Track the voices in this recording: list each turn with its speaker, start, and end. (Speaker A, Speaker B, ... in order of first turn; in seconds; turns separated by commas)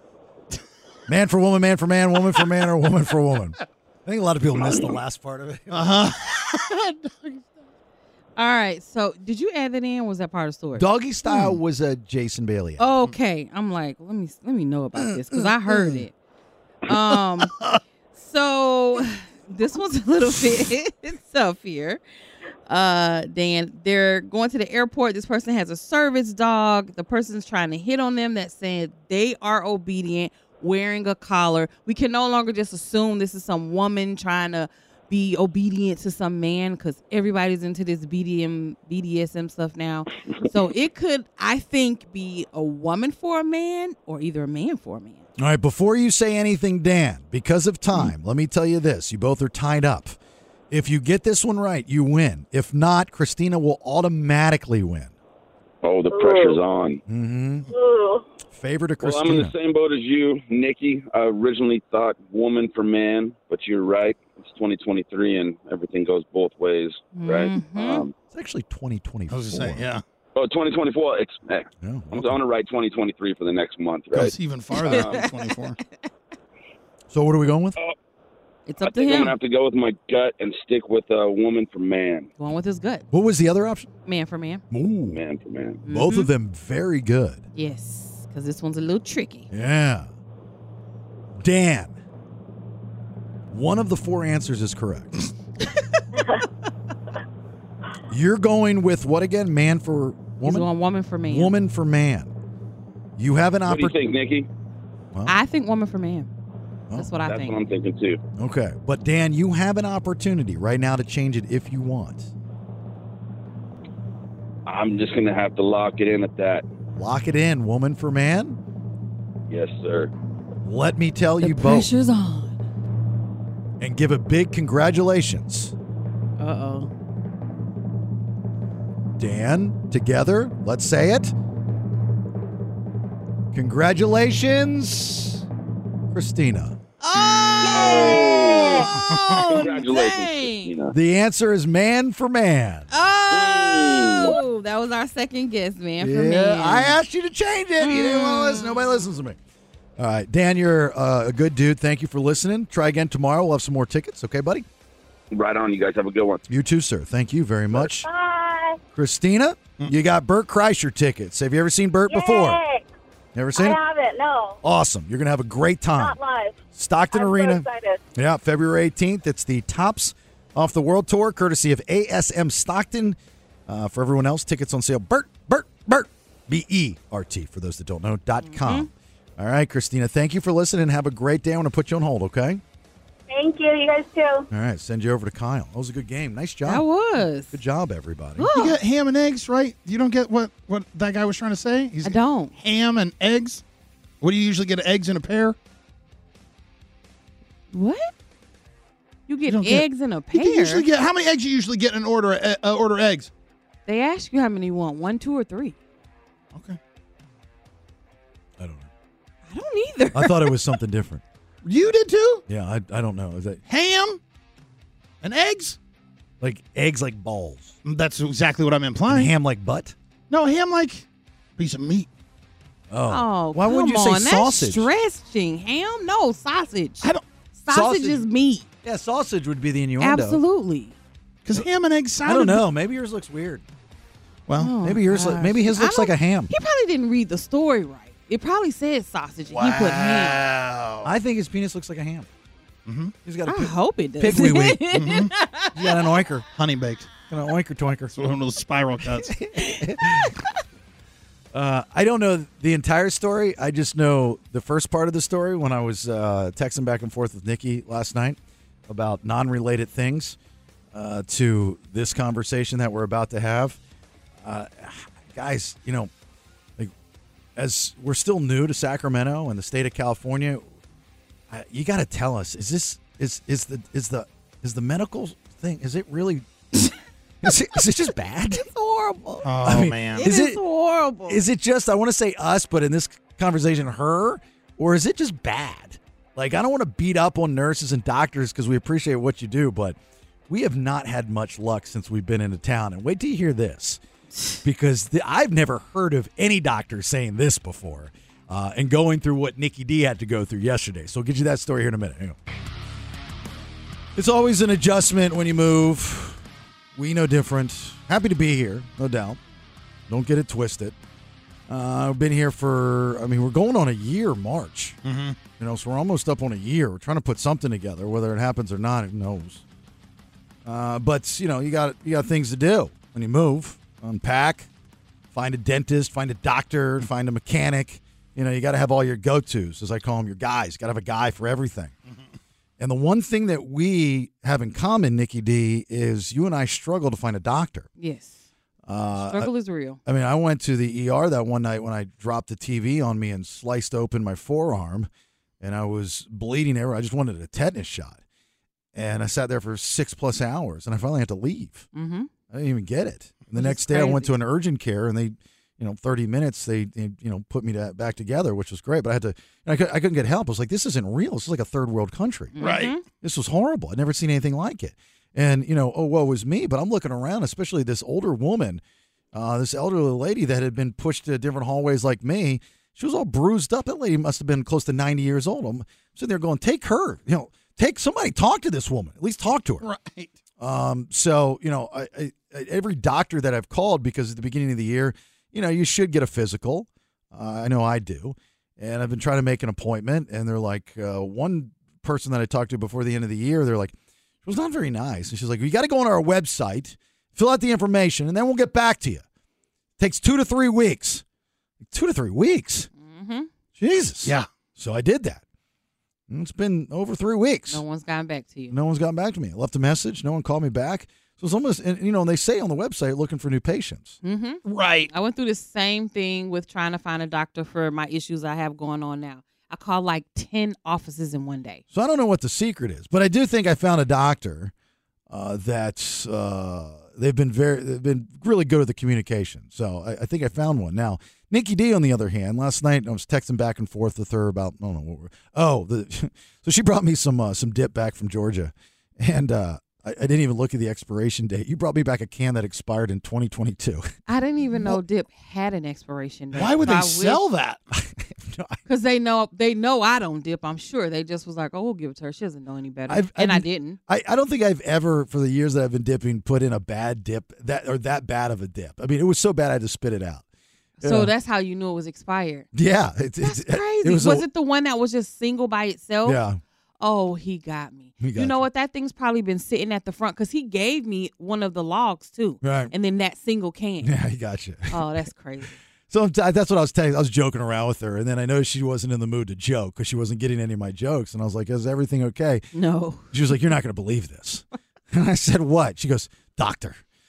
Speaker A: 1.1-6.1, Speaker B: 5.7-7.4, Speaker C: 8.4-11.4, Speaker A: 10.8-12.9, Speaker C: 12.8-16.1, Speaker A: 15.0-16.0, Speaker C: 16.9-17.5, Speaker C: 18.1-22.0, Speaker C: 22.7-45.2, Speaker A: 45.4-50.2, Speaker A: 50.7-55.1, Speaker D: 55.8-57.0, Speaker E: 56.1-56.6, Speaker A: 57.1-57.7, Speaker E: 57.7-58.2, Speaker A: 58.5-59.5, Speaker D: 59.0-68.1, Speaker C: 67.1-68.0, Speaker A: 68.3-69.9, Speaker B: 69.3-70.0, Speaker D: 70.3-75.2, Speaker A: 71.8-72.4, Speaker B: 74.1-75.8, Speaker C: 74.9-75.2, Speaker A: 77.1-77.8, Speaker C: 78.7-79.3, Speaker D: 78.8-82.3, Speaker C: 82.4-83.0, Speaker A: 83.1-83.9, Speaker C: 84.0-84.6, Speaker A: 84.7-85.2, Speaker D: 85.1-85.8, Speaker C: 85.8-86.3, Speaker A: 85.8-87.4, Speaker C: 87.5-89.5, Speaker A: 89.5-90.1, Speaker A: 91.4-92.0, Speaker A: 93.5-95.2, Speaker C: 95.7-96.0, Speaker A: 98.1-100.7, Speaker C: 100.4-101.5, Speaker A: 101.3-102.3, Speaker A: 103.2-104.0, Speaker D: 103.7-104.5, Speaker C: 105.3-106.3, Speaker C: 106.9-107.5, Speaker D: 107.3-108.2, Speaker A: 108.4-112.3, Speaker D: 114.7-116.6, Speaker A: 117.0-118.6, Speaker D: 119.5-120.1, Speaker A: 120.6-121.9, Speaker C: 121.4-122.6, Speaker A: 123.8-125.7, Speaker C: 126.4-126.9, Speaker A: 129.2-131.3, Speaker A: 133.5-135.4, Speaker A: 136.1-136.8, Speaker C: 137.0-140.7, Speaker E: 137.6-138.9, Speaker D: 137.6-140.9, Speaker A: 140.9-142.9, Speaker C: 142.9-147.0, Speaker D: 143.3-144.4, Speaker A: 146.0-149.4, Speaker C: 147.8-149.0, Speaker A: 150.0-154.7, Speaker D: 155.3-156.4, Speaker A: 156.5-158.1, Speaker E: 157.8-158.8, Speaker A: 158.9-162.6, Speaker E: 162.1-162.8, Speaker A: 163.3-163.8, Speaker E: 163.5-164.6, Speaker A: 164.6-166.2, Speaker E: 166.0-166.6, Speaker A: 166.7-182.6, Speaker E: 167.1-168.0, Speaker C: 178.4-178.9, Speaker E: 183.3-184.5, Speaker A: 184.5-186.9, Speaker C: 186.7-187.5, Speaker A: 187.5-188.5, Speaker C: 188.4-188.8, Speaker B: 188.5-193.6, Speaker C: 192.0-192.5, Speaker B: 194.2-195.6, Speaker C: 197.7-198.1, Speaker C: 199.3-200.8, Speaker B: 199.5-203.3, Speaker C: 203.9-205.8, Speaker B: 206.5-206.8, Speaker A: 208.6-208.9, Speaker C: 209.5-210.5, Speaker A: 210.1-211.2, Speaker B: 211.6-212.4, Speaker A: 212.5-213.6, Speaker B: 213.7-214.2, Speaker B: 215.2-215.8, Speaker A: 216.4-217.8, Speaker B: 217.8-219.3, Speaker A: 219.1-219.9, Speaker B: 220.3-221.1, Speaker B: 221.6-222.1, Speaker A: 222.9-224.9, Speaker C: 223.1-228.7, Speaker A: 227.7-228.2, Speaker A: 228.8-230.4, Speaker C: 230.0-230.9, Speaker B: 231.4-232.6, Speaker A: 232.2-233.6, Speaker B: 234.5-234.8, Speaker C: 234.6-240.4, Speaker A: 234.8-236.5, Speaker B: 239.5-241.1, Speaker A: 241.0-242.3, Speaker B: 242.8-243.1, Speaker A: 243.2-244.9, Speaker C: 243.5-245.8, Speaker B: 244.9-245.3, Speaker A: 245.7-246.4, Speaker B: 246.5-247.1, Speaker A: 247.3-248.1, Speaker B: 248.1-249.4, Speaker A: 249.2-250.3, Speaker C: 249.6-250.5, Speaker A: 251.5-260.4, Speaker A: 260.9-263.8, Speaker A: 264.4-266.1, Speaker A: 267.6-270.7, Speaker A: 271.5-276.5, Speaker A: 277.4-278.7, Speaker C: 278.5-279.5, Speaker B: 279.4-280.3, Speaker A: 279.5-280.6, Speaker C: 280.1-281.4, Speaker A: 281.2-290.0, Speaker A: 290.5-294.0, Speaker A: 294.6-302.4, Speaker A: 304.1-306.4, Speaker A: 306.9-309.4, Speaker A: 310.1-310.9, Speaker A: 311.7-315.0, Speaker B: 315.0-315.4, Speaker A: 315.5-319.6, Speaker A: 320.6-324.7, Speaker A: 325.3-331.9, Speaker A: 332.8-337.9, Speaker C: 338.0-338.4, Speaker A: 338.9-339.5, Speaker C: 339.2-340.0, Speaker A: 340.0-345.1, Speaker A: 345.6-348.2, Speaker A: 348.9-351.9, Speaker C: 351.9-352.3, Speaker A: 352.5-362.6, Speaker C: 353.6-354.3, Speaker C: 362.6-363.0, Speaker B: 362.6-363.0, Speaker A: 363.1-368.8, Speaker A: 369.3-379.8, Speaker B: 379.8-380.3, Speaker A: 380.6-399.2, Speaker A: 400.0-401.2, Speaker A: 401.9-402.9, Speaker C: 403.0-403.5, Speaker A: 403.8-405.4, Speaker A: 406.3-407.8, Speaker C: 407.7-408.8, Speaker A: 408.7-414.2, Speaker C: 414.2-421.8, Speaker B: 414.6-415.1, Speaker A: 421.9-424.7, Speaker A: 425.3-444.2, Speaker C: 444.3-447.4, Speaker B: 446.5-447.8, Speaker A: 446.6-446.9, Speaker A: 447.9-448.8, Speaker C: 448.9-454.0, Speaker A: 453.1-460.4, Speaker C: 461.0-462.7, Speaker A: 461.0-461.3, Speaker A: 462.7-464.4, Speaker C: 463.4-466.4, Speaker A: 466.2-466.6, Speaker C: 467.0-474.1, Speaker A: 468.2-468.6, Speaker A: 472.6-472.9, Speaker A: 474.0-475.0, Speaker C: 474.9-475.8, Speaker A: 476.1-482.7, Speaker C: 482.7-483.3, Speaker A: 483.3-487.0